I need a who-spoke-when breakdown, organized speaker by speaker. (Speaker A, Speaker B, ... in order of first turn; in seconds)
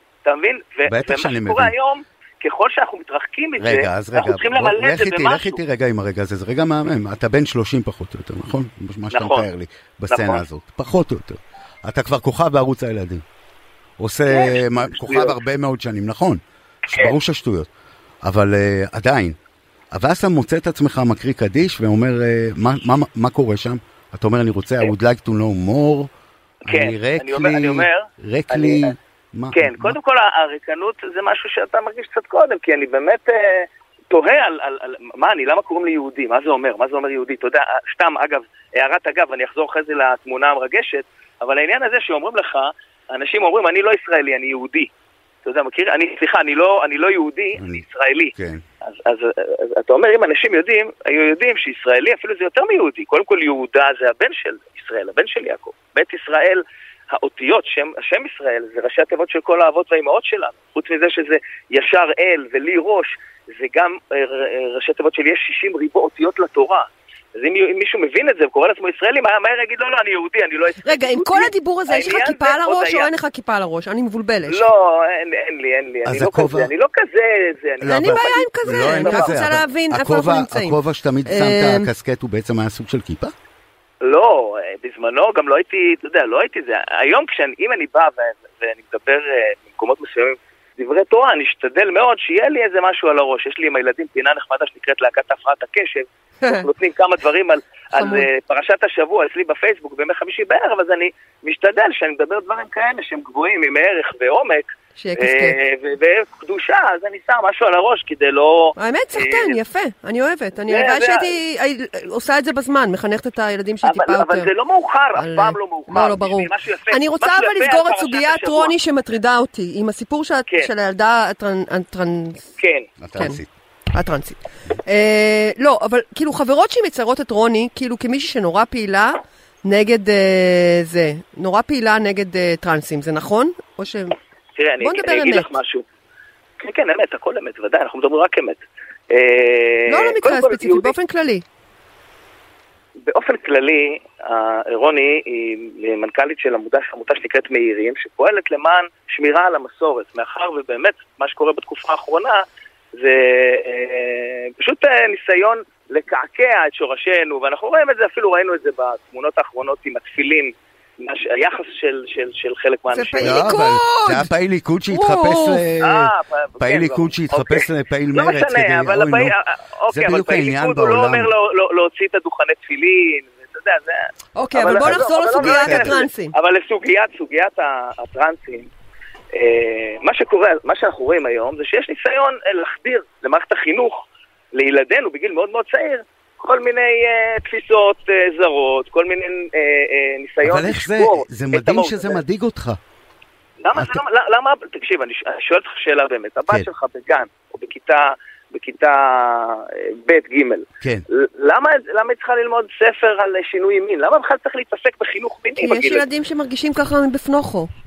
Speaker A: 0.2-5.6, 9.1-9.5, 10.1-10.4, 14.3-15.4, 26.7-29.0, 29.5-44.9, 45.5-48.3, 48.9-73.1, 74.5-79.6, 84.0-109.6, 110.7-111.4, 113.8-118.7, 122.6-122.9, 134.6-135.8, 136.6-140.9, 143.1-152.4, 153.0-163.5, 165.8-178.7, 179.3-192.2, 193.6-206.1
Speaker B: 0.9-1.7, 3.6-13.2, 14.0-17.7, 18.2-19.4, 19.9-26.1, 26.7-30.0, 47.6-47.8, 48.3-48.6, 76.0-76.7, 77.8-83.3, 123.0-123.5, 163.2-169.3, 169.9-171.3, 174.8-176.0, 190.4-192.8, 193.8-194.0
Speaker C: 70.8-74.7, 77.8-81.9, 96.4-96.7, 98.0-98.3, 105.0-105.6, 108.8-114.5, 115.2-122.4, 123.2-123.4, 123.9-134.2, 134.8-135.5, 139.9-141.4, 162.9-164.3, 164.9-165.6, 174.3-176.3, 205.6-207.7